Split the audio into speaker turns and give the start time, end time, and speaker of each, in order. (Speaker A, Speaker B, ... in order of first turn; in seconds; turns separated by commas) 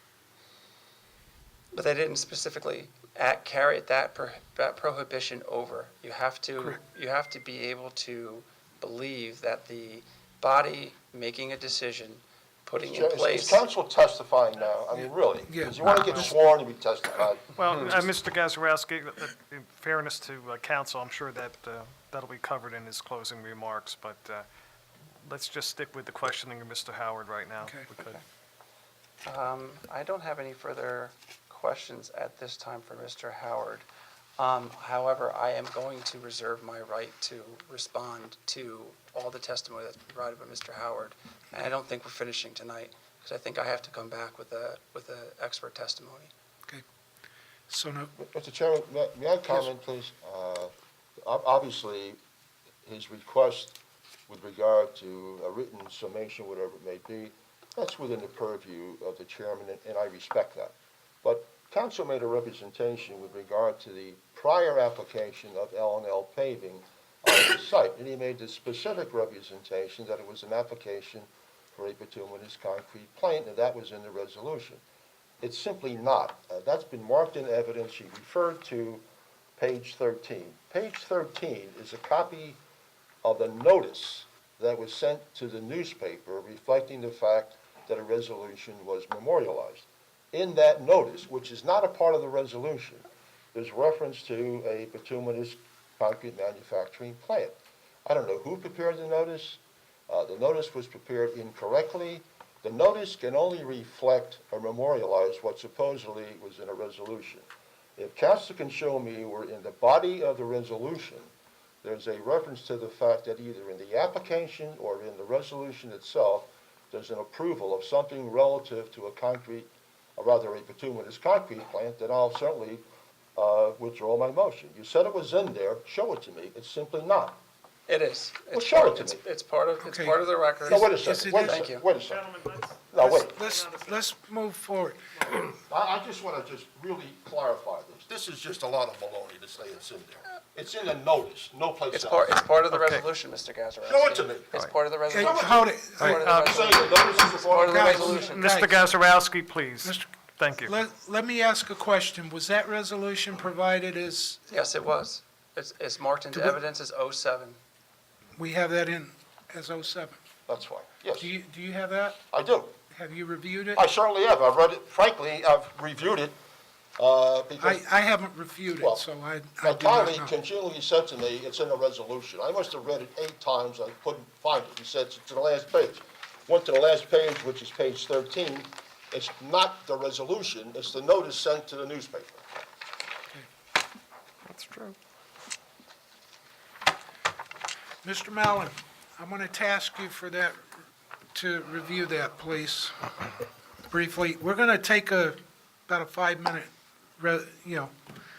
Speaker A: 1.7-13.7, Speaker B: 12.8-17.5, Speaker C: 15.5-15.8, Speaker D: 16.0-16.4, Speaker D: 17.6-24.5, Speaker D: 25.2-28.2, Speaker A: 29.2-33.9, Speaker A: 34.4-46.3, Speaker C: 47.7-48.1, Speaker B: 48.2-52.2, Speaker B: 52.9-53.8, Speaker B: 54.3-74.8, Speaker B: 75.4-79.0, Speaker B: 79.6-82.6, Speaker B: 83.2-107.5, Speaker B: 108.0-111.3, Speaker B: 111.8-122.8, Speaker B: 123.4-127.4, Speaker A: 127.9-131.8, Speaker B: 128.5-129.2, Speaker C: 129.7-131.7, Speaker B: 130.7-132.3, Speaker D: 132.0-132.8, Speaker B: 132.9-133.4, Speaker C: 133.0-135.1, Speaker D: 133.4-134.0, Speaker B: 135.6-142.4, Speaker A: 141.9-148.5, Speaker D: 142.7-143.1, Speaker B: 143.8-144.5, Speaker C: 145.1-146.3, Speaker B: 145.1-148.4, Speaker D: 146.0-146.7, Speaker C: 147.5-148.8, Speaker D: 148.4-150.8, Speaker C: 150.6-154.8, Speaker A: 154.5-157.6, Speaker C: 156.1-156.8, Speaker C: 158.4-160.2, Speaker B: 160.5-161.3, Speaker C: 161.2-162.2, Speaker B: 162.3-162.8, Speaker C: 162.9-163.8, Speaker B: 163.8-166.4, Speaker B: 167.0-167.8, Speaker C: 167.6-170.3, Speaker B: 168.8-169.1, Speaker B: 169.6-182.4, Speaker D: 184.5-184.9, Speaker C: 188.0-190.6, Speaker C: 191.3-192.9, Speaker C: 193.9-197.9